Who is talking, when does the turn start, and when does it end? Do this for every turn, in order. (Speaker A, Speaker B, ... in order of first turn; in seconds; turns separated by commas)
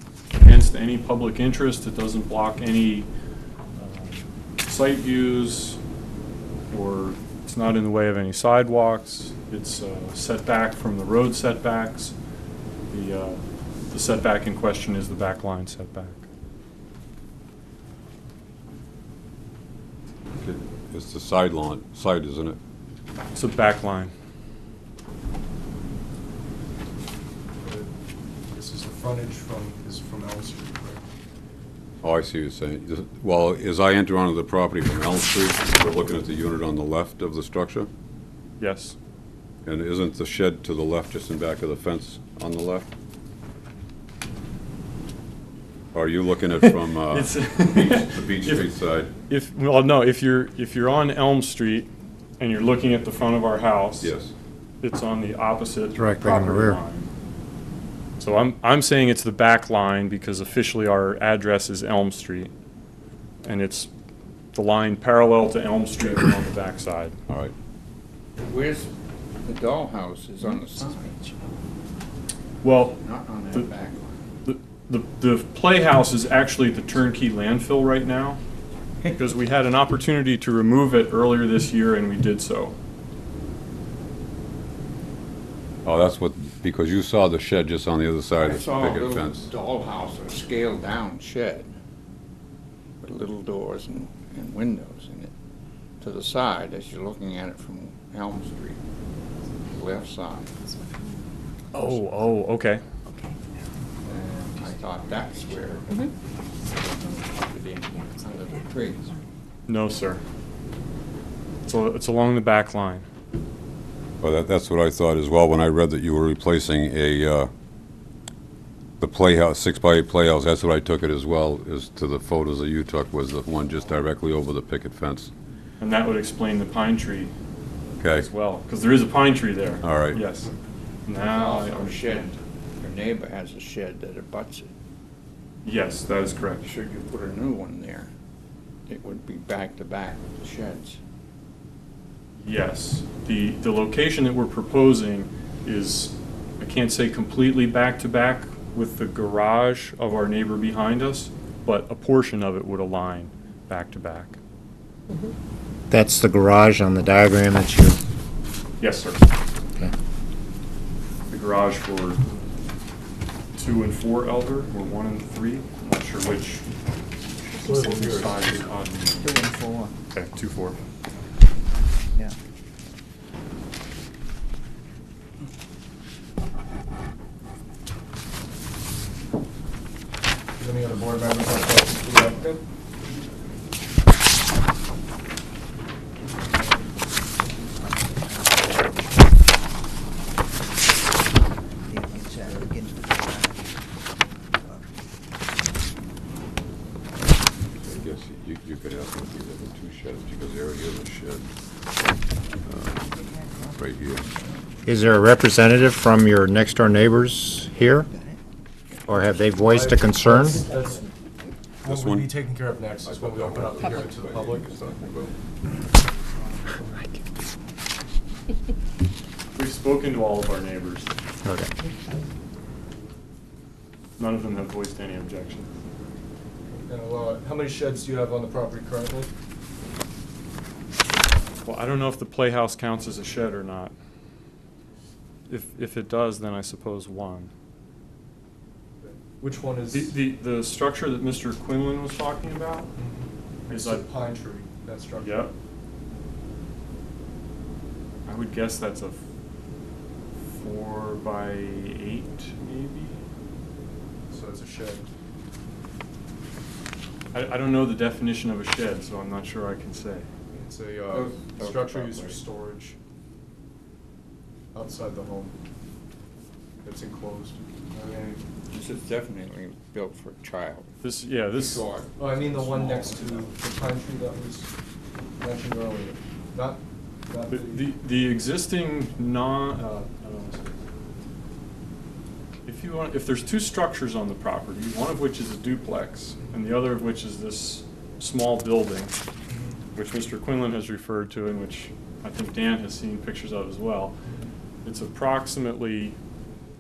Speaker A: 0.4-3.1, Speaker A: 3.8-5.8, Speaker A: 6.7-12.2, Speaker A: 12.9-16.2, Speaker B: 20.3-22.6, Speaker A: 23.4-24.1, Speaker C: 27.6-27.9, Speaker C: 28.5-31.0, Speaker B: 32.0-37.9, Speaker A: 38.6-39.0, Speaker B: 39.6-42.9, Speaker B: 45.9-49.1, Speaker A: 46.6-48.7, Speaker A: 49.3-54.1, Speaker B: 54.0-54.3, Speaker A: 54.8-57.1, Speaker D: 56.0-56.8, Speaker A: 58.2-62.5, Speaker A: 63.4-63.9, Speaker A: 64.5-67.2, Speaker B: 67.3-67.5, Speaker E: 68.4-68.9, Speaker E: 69.4-71.2, Speaker F: 70.6-71.5, Speaker A: 72.6-73.0, Speaker E: 73.0-74.3, Speaker A: 74.5-78.4, Speaker A: 79.1-82.8, Speaker B: 85.8-89.5, Speaker E: 88.4-91.7, Speaker E: 93.0-95.3, Speaker E: 96.0-98.8, Speaker E: 99.7-100.5, Speaker F: 100.7-101.1, Speaker A: 101.7-102.8, Speaker F: 103.1-103.5, Speaker F: 104.0-106.0, Speaker E: 104.0-109.1, Speaker F: 108.0-109.1, Speaker A: 109.7-110.2, Speaker A: 111.7-113.1, Speaker B: 114.2-117.5, Speaker B: 119.0-125.3, Speaker A: 125.8-127.3, Speaker B: 128.0-128.3, Speaker A: 128.1-130.5, Speaker B: 129.8-130.2, Speaker A: 131.1-132.4, Speaker E: 131.1-134.7, Speaker A: 135.6-136.7, Speaker E: 136.6-138.1, Speaker E: 138.9-141.0, Speaker A: 142.4-154.4, Speaker D: 155.9-158.0, Speaker A: 158.8-159.3, Speaker A: 161.3-162.2, Speaker A: 163.6-166.7, Speaker A: 167.4-169.4, Speaker B: 167.7-168.6, Speaker F: 169.2-169.9, Speaker A: 170.1-170.8, Speaker C: 180.6-182.6, Speaker F: 187.5-189.3, Speaker F: 191.8-193.7, Speaker B: 197.8-201.4, Speaker B: 202.7-203.2, Speaker F: 203.0-204.7, Speaker B: 203.8-204.3, Speaker D: 204.8-208.1, Speaker F: 208.0-208.4, Speaker D: 209.1-210.6, Speaker C: 209.6-211.1, Speaker B: 211.8-212.3, Speaker C: 211.8-214.8, Speaker B: 213.0-215.3, Speaker A: 219.6-221.1, Speaker D: 221.4-221.7, Speaker A: 224.2-225.7, Speaker C: 226.7-229.3, Speaker A: 231.6-233.9, Speaker A: 235.5-237.5, Speaker C: 239.0-240.2, Speaker A: 239.9-242.9, Speaker C: 242.9-245.5, Speaker A: 243.7-244.0, Speaker A: 245.2-245.5, Speaker A: 248.3-249.2, Speaker A: 250.6-253.2, Speaker C: 254.3-255.1, Speaker A: 257.3-260.3, Speaker C: 260.5-263.0, Speaker E: 261.1-262.4, Speaker C: 264.7-265.6, Speaker C: 266.8-268.4, Speaker E: 268.7-270.9, Speaker A: 271.0-271.9, Speaker E: 271.5-273.6, Speaker C: 272.2-274.7, Speaker C: 275.4-277.9, Speaker A: 277.5-280.7, Speaker A: 282.7-289.1, Speaker C: 289.5-289.8, Speaker A: 289.9-294.1, Speaker C: 294.2-294.5, Speaker A: 294.8-296.2